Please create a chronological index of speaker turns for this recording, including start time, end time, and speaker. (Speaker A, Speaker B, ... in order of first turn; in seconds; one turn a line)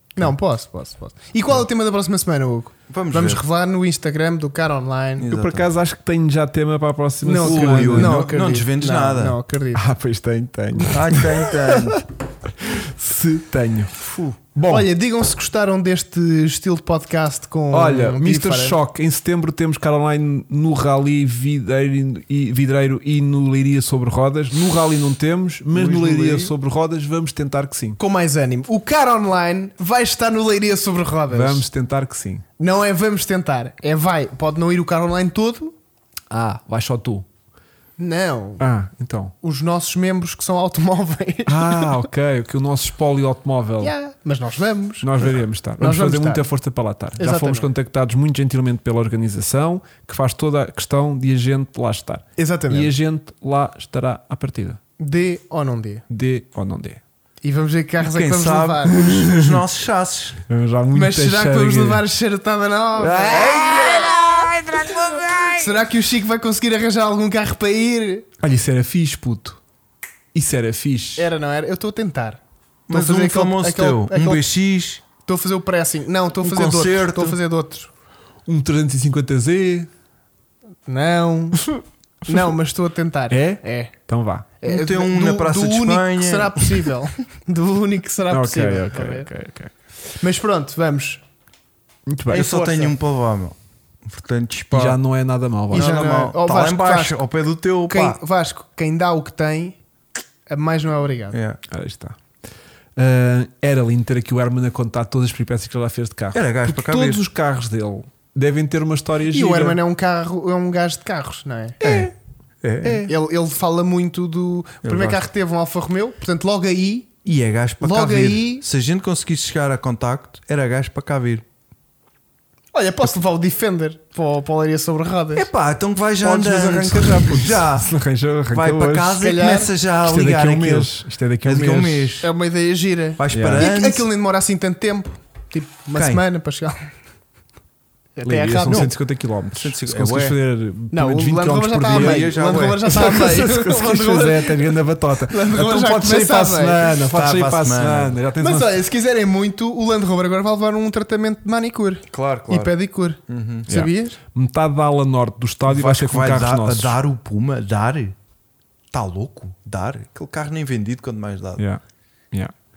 Speaker A: 0.1-5.3
Speaker B: 2.9-3.4
Speaker B: 5.2-5.7
Speaker C: 5.3-8.2
Speaker A: 7.2-9.9
Speaker B: 7.4-9.4
Speaker C: 9.7-12.0
Speaker B: 10.8-12.0
Speaker C: 12.6-14.0
Speaker B: 14.0-14.4
Speaker C: 14.5-14.9
Speaker A: 14.7-18.8
Speaker C: 17.7-28.0
Speaker B: 25.7-26.5
Speaker A: 28.0-31.6
Speaker C: 31.3-32.4
Speaker A: 32.6-35.7
Speaker C: 36.3-37.2
Speaker A: 38.0-38.6
Speaker C: 38.6-39.3
Speaker A: 39.4-41.9
Speaker C: 41.5-43.9
Speaker A: 43.8-46.4
Speaker C: 45.0-54.8
Speaker A: 47.2-47.7
Speaker A: 52.4-52.9
Speaker A: 55.0-56.0
Speaker C: 56.1-57.0
Speaker A: 57.4-59.1
Speaker B: 58.0-60.4
Speaker C: 59.0-59.6
Speaker C: 60.5-62.0
Speaker A: 60.9-64.1
Speaker C: 63.0-64.1
Speaker B: 63.2-65.8
Speaker A: 65.4-68.3
Speaker C: 68.4-69.6
Speaker C: 70.3-71.2
Speaker A: 71.2-74.4
Speaker B: 72.9-75.0
Speaker A: 75.2-77.9
Speaker B: 76.4-77.4
Speaker C: 78.5-79.9
Speaker A: 80.9-81.7
Speaker A: 82.2-83.9
Speaker C: 83.3-84.5
Speaker A: 84.6-89.3
Speaker B: 84.6-86.9
Speaker C: 88.3-89.7
Speaker A: 90.1-91.2
Speaker C: 92.1-92.5
Speaker B: 92.3-95.0
Speaker A: 92.3-92.9
Speaker C: 94.7-95.9
Speaker B: 95.7-98.2
Speaker A: 95.7-97.2
Speaker A: 97.9-99.8
Speaker A: 100.5-101.4
Speaker B: 101.3-101.6
Speaker C: 101.7-102.2
Speaker C: 103.0-109.8
Speaker B: 106.3-107.2
Speaker A: 109.3-112.1
Speaker C: 111.8-112.1
Speaker B: 111.8-112.1
Speaker B: 112.6-113.0
Speaker C: 112.8-113.1
Speaker A: 112.9-117.1
Speaker B: 114.8-115.3
Speaker B: 117.2-121.4
Speaker A: 117.8-118.6
Speaker A: 122.7-125.5
Speaker B: 125.3-127.9
Speaker C: 126.2-129.2
Speaker B: 128.5-130.9
Speaker A: 129.2-129.7
Speaker C: 130.0-132.2
Speaker B: 131.4-132.3
Speaker A: 132.2-136.9
Speaker B: 133.2-134.1
Speaker C: 133.3-133.7
Speaker B: 135.9-136.2
Speaker A: 138.2-138.9
Speaker C: 138.2-142.3
Speaker B: 139.5-140.4
Speaker A: 140.9-144.7
Speaker B: 141.9-142.8
Speaker C: 142.8-148.8
Speaker A: 145.3-146.9
Speaker B: 147.1-148.2
Speaker A: 148.4-154.2
Speaker B: 152.1-152.7
Speaker B: 153.3-153.7
Speaker C: 153.7-157.0
Speaker B: 155.7-158.2
Speaker B: 158.9-161.6